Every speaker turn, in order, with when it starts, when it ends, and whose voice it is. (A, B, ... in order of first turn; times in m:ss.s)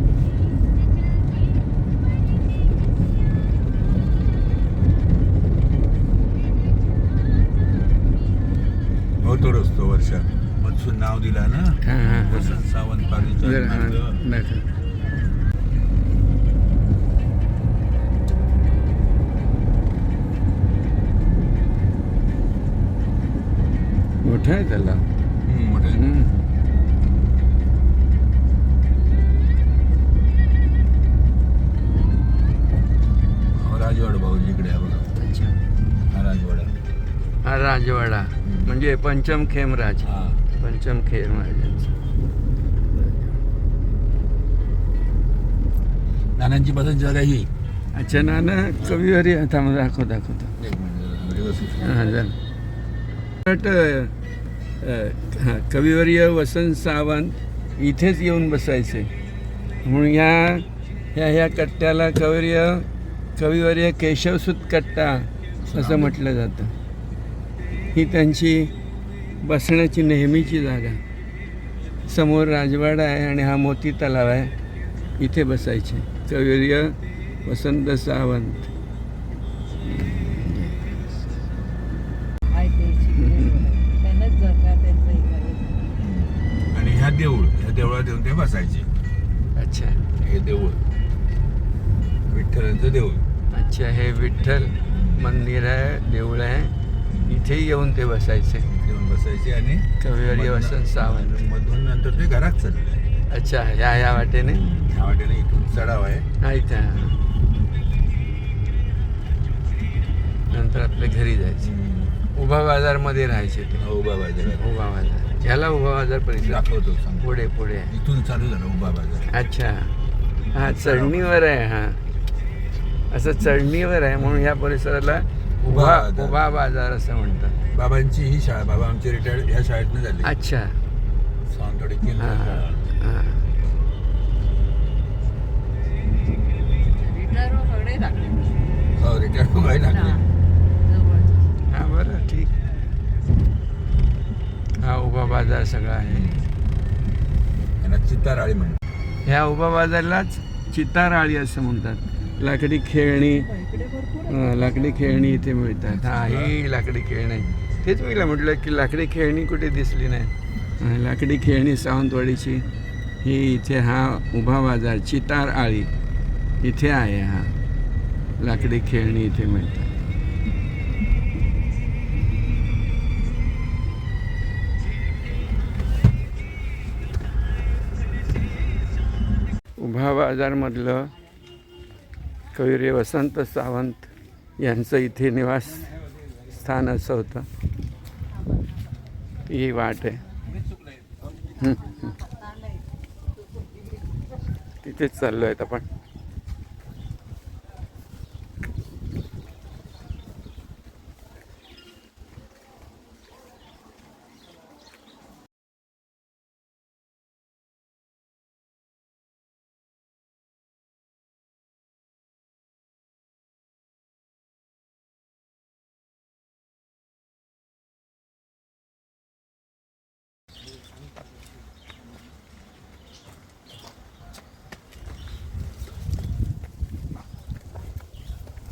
0:09.2-0:14.2 A
0:11.8-0:12.6 B
0:13.4-0:14.7 B
0:24.2-0:25.0 B
0:25.4-0:26.1 A
0:25.9-0:26.4 B
0:33.5-0:35.1 A
0:35.2-0:35.6 B
0:36.1-0:36.7 A
0:37.4-0:41.9 B
0:38.4-0:38.7 A
0:40.0-0:40.4 A
0:42.9-0:43.4 B
0:46.4-0:47.5 A
0:47.9-0:50.5 B
0:50.6-0:52.2 A
0:51.8-0:52.4 B
0:53.4-0:54.1 B
0:54.8-0:59.1 B
0:59.8-1:06.7 B
1:05.6-1:06.2 A
1:07.9-1:08.7 B
1:09.4-1:11.0 B
1:12.1-1:14.5 B
1:15.2-1:18.7 B
1:19.8-1:21.1 B
1:22.5-1:25.9 C
1:23.2-1:23.6 B
1:25.9-1:28.9 A
1:29.6-1:30.0 B
1:30.2-1:30.8 A
1:32.3-1:33.2 A
1:33.5-1:36.7 B
1:34.9-1:35.4 A
1:37.1-1:37.4 A
1:37.3-1:38.7 B
1:38.7-1:43.0 A
1:40.0-1:41.4 B
1:43.3-1:44.6 B
1:44.6-1:46.3 A
1:46.4-1:47.2 B
1:50.5-1:51.7 B
1:51.6-1:52.2 A
1:52.3-1:53.8 B
1:53.8-1:54.7 A
1:54.5-1:56.6 B
1:56.4-1:57.4 A
1:57.2-1:57.9 B
1:57.9-1:59.4 A
1:59.3-2:00.0 B
2:00.5-2:02.0 B
2:00.6-2:01.3 A
2:03.1-2:07.6 B
2:05.6-2:06.5 A
2:07.7-2:10.4 A
2:10.2-2:10.8 B
2:11.5-2:12.9 A
2:12.2-2:13.5 B
2:17.0-2:18.7 C
2:19.0-2:20.2 A
2:19.7-2:20.3 C
2:20.8-2:21.6 C
2:21.7-2:22.5 B
2:24.8-2:26.3 B
2:26.1-2:26.5 A
2:27.8-2:28.8 A
2:29.2-2:33.5 B
2:33.4-2:34.8 C
2:34.3-2:42.6 B
2:36.0-2:36.6 A
2:43.2-2:45.9 B
2:46.6-2:47.6 B
2:48.4-2:49.9 B
2:59.8-3:01.1 B
3:02.5-3:05.9 B
3:06.4-3:07.5 B
3:09.5-3:10.2 B
3:11.6-3:12.0 B
3:14.8-3:15.8 B